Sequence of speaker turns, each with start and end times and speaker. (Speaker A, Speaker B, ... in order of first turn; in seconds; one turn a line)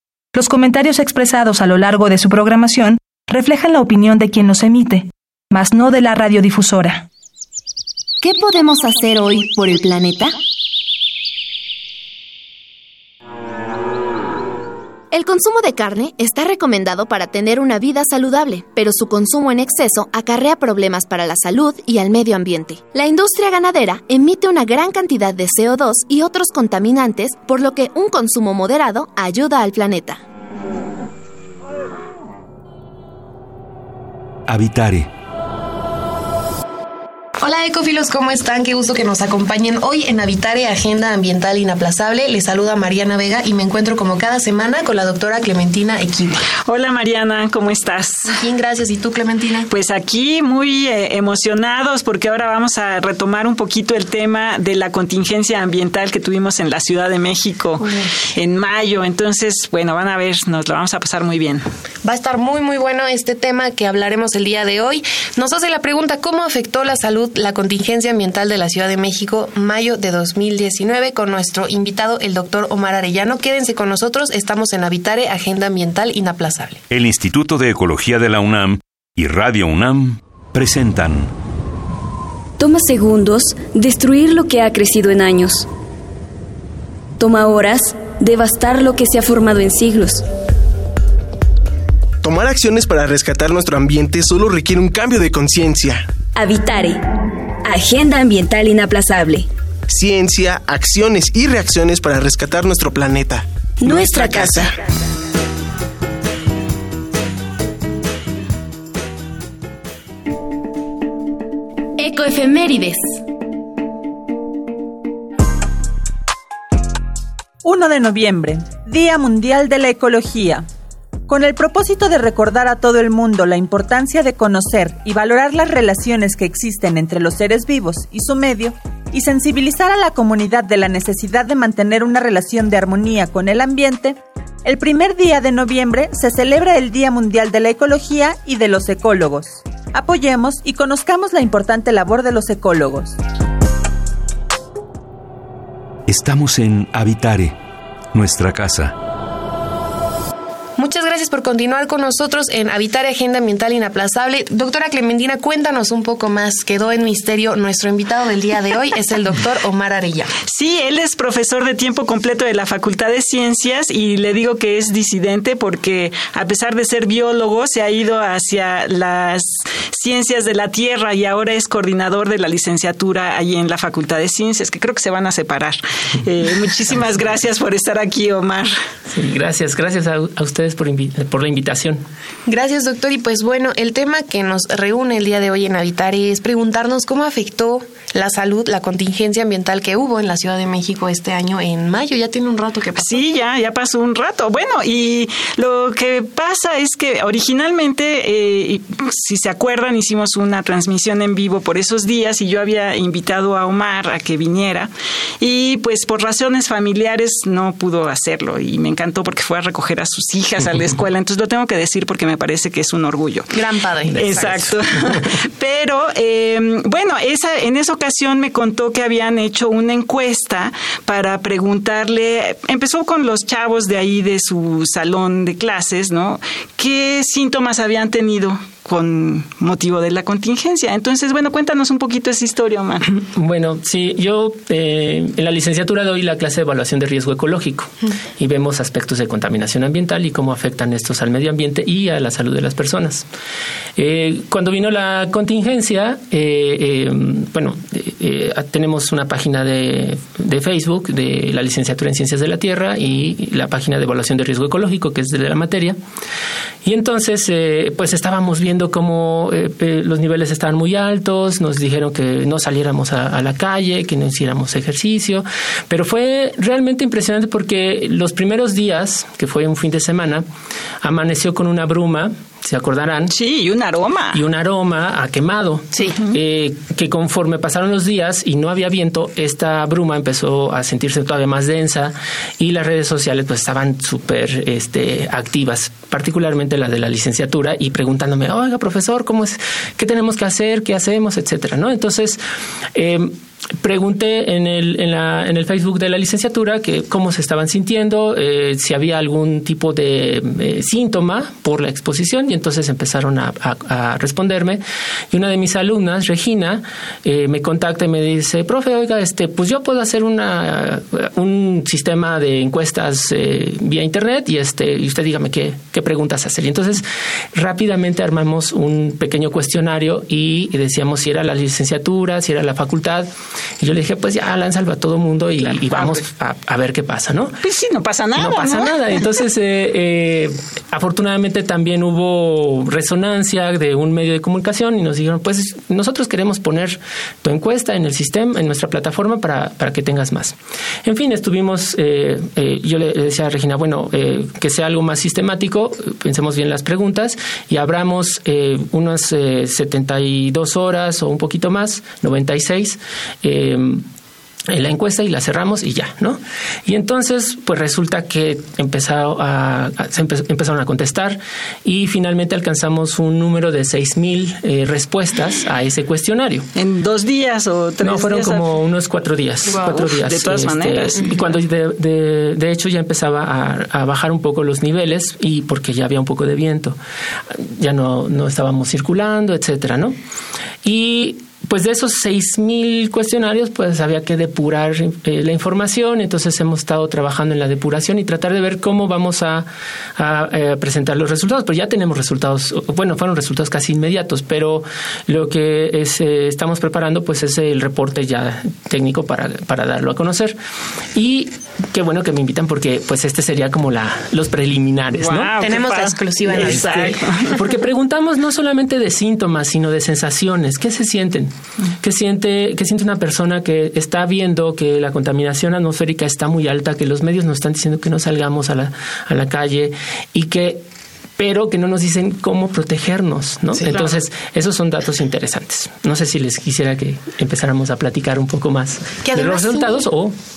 Speaker A: 0.3-7.1
Speaker B: 8.2-10.4
Speaker B: 15.1-30.2
Speaker C: 34.5-35.1
Speaker D: 37.4-46.4
Speaker E: 46.7-48.4
Speaker D: 48.3-49.7
Speaker E: 49.7-61.7
Speaker D: 62.0-76.8
Speaker C: 76.9-81.3
Speaker F: 82.6-85.7
Speaker F: 87.2-90.2
Speaker G: 92.2-96.1
Speaker F: 96.3-97.0
Speaker F: 97.6-99.5
Speaker G: 99.9-104.8
Speaker F: 103.8-104.7
Speaker B: 112.0-113.2
Speaker H: 117.6-120.7
Speaker H: 121.3-143.2
Speaker C: 146.1-147.6
Speaker C: 148.1-148.9
Speaker D: 150.8-160.3
Speaker E: 160.5-178.7
Speaker I: 179.1-182.1
Speaker D: 182.5-193.2
Speaker E: 193.0-233.1
Speaker D: 213.5-214.8
Speaker I: 233.1-243.2
Speaker I: 244.0-256.0
Speaker I: 256.8-270.4
Speaker I: 271.0-273.3
Speaker E: 273.3-274.4
Speaker I: 274.3-292.4
Speaker E: 276.1-276.3
Speaker I: 292.9-323.3
Speaker I: 323.8-327.6
Speaker E: 325.6-326.2
Speaker E: 327.6-328.9
Speaker I: 328.4-354.0
Speaker I: 354.7-366.7
Speaker E: 366.8-368.7
Speaker I: 368.0-377.0
Speaker E: 369.7-371.3
Speaker I: 377.5-380.1
Speaker I: 380.8-400.6
Speaker I: 401.1-405.6
Speaker E: 405.1-407.6
Speaker D: 405.6-407.2
Speaker I: 406.5-420.9
Speaker I: 421.4-430.4
Speaker D: 429.2-430.1